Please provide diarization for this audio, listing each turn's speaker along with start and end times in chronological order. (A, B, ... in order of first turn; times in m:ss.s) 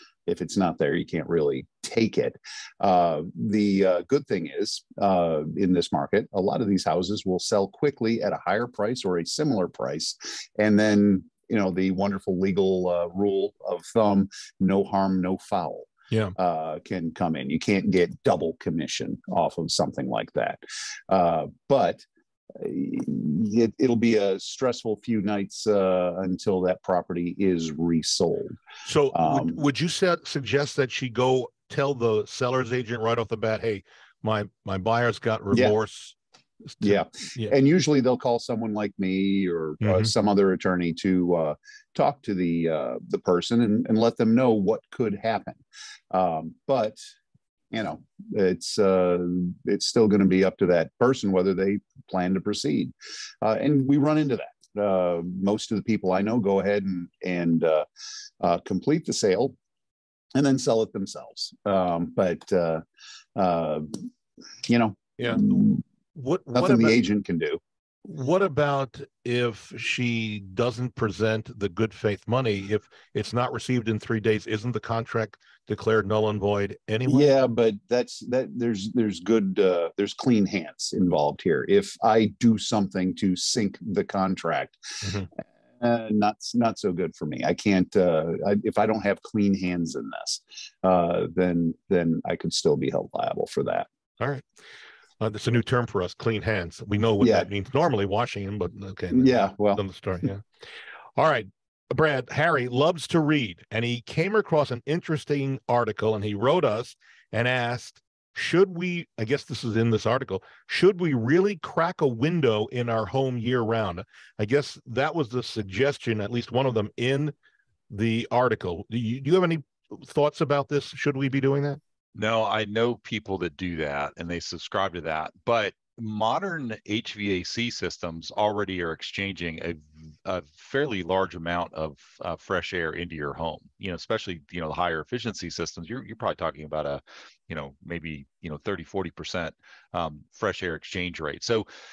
0:00.3-0:28.6 A
0:28.8-0:36.2 B
0:29.1-0:29.6 A
0:36.7-0:37.5 B
0:36.8-0:47.0 A
0:39.8-0:40.1 B
0:47.7-0:57.9 A
0:58.4-0:59.6 A
1:00.4-1:02.8 A
1:03.4-1:04.1 A
1:04.7-1:05.8 A
1:05.2-1:05.6 B
1:06.1-1:07.0 B
1:06.5-1:07.6 A
1:08.1-1:17.3 B
1:17.1-1:33.9 A
1:25.0-1:25.3 B
1:34.2-1:34.4 B
1:35.2-1:40.4 B
1:37.2-1:37.5 A
1:39.1-1:39.8 A
1:41.2-1:57.3 B
1:57.9-2:01.8 B
2:02.1-2:21.7 C